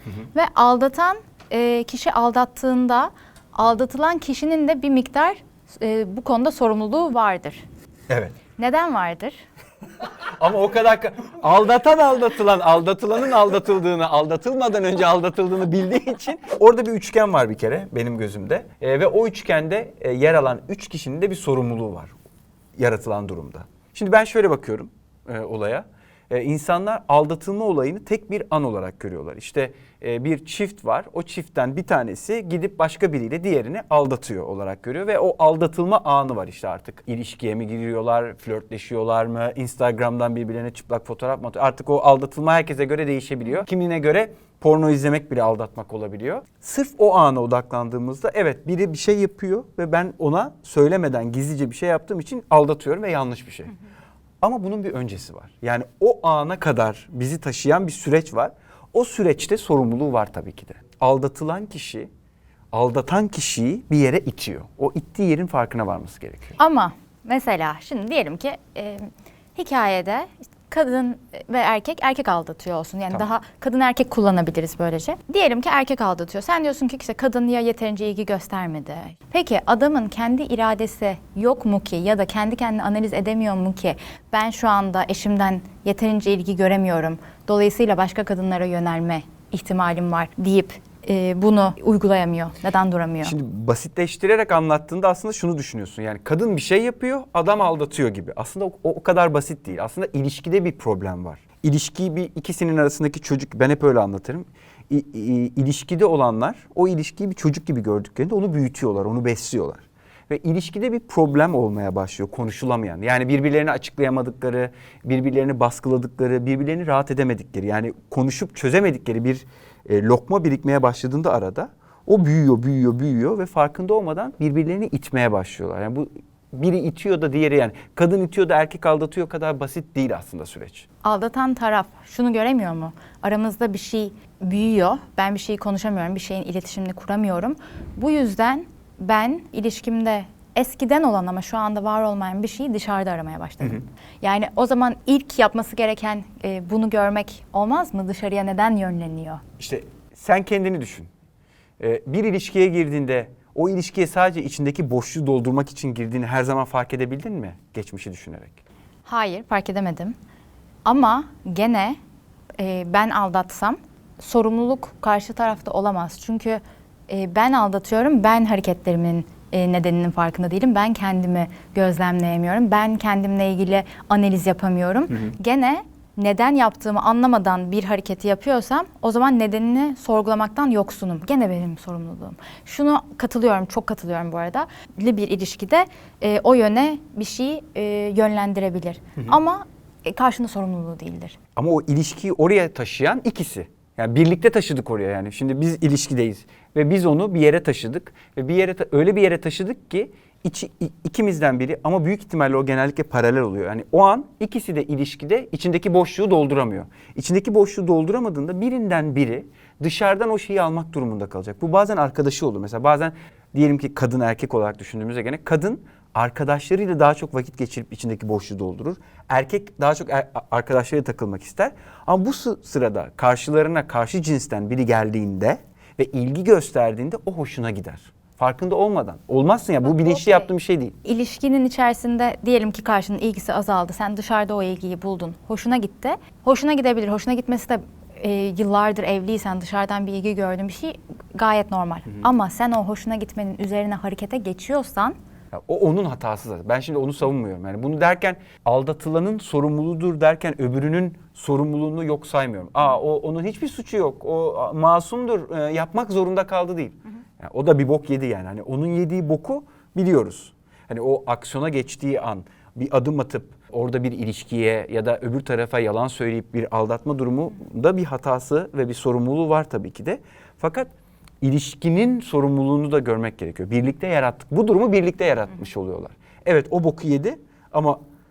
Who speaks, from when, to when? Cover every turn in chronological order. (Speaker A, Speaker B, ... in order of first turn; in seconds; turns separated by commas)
Speaker A: 0.3-7.6, Speaker B: 8.1-8.3, Speaker A: 8.6-9.4, Speaker B: 10.4-22.1, Speaker B: 22.8-53.7, Speaker B: 54.4-62.1, Speaker B: 62.7-66.6, Speaker A: 66.6-93.3, Speaker B: 93.2-130.8, Speaker A: 131.0-149.4, Speaker B: 149.6-151.1, Speaker B: 151.8-158.6, Speaker A: 159.1-160.2, Speaker A: 160.8-162.0, Speaker A: 162.6-191.4, Speaker B: 191.6-230.9, Speaker A: 229.8-230.5, Speaker A: 231.0-245.2, Speaker B: 245.5-270.9, Speaker B: 271.4-278.0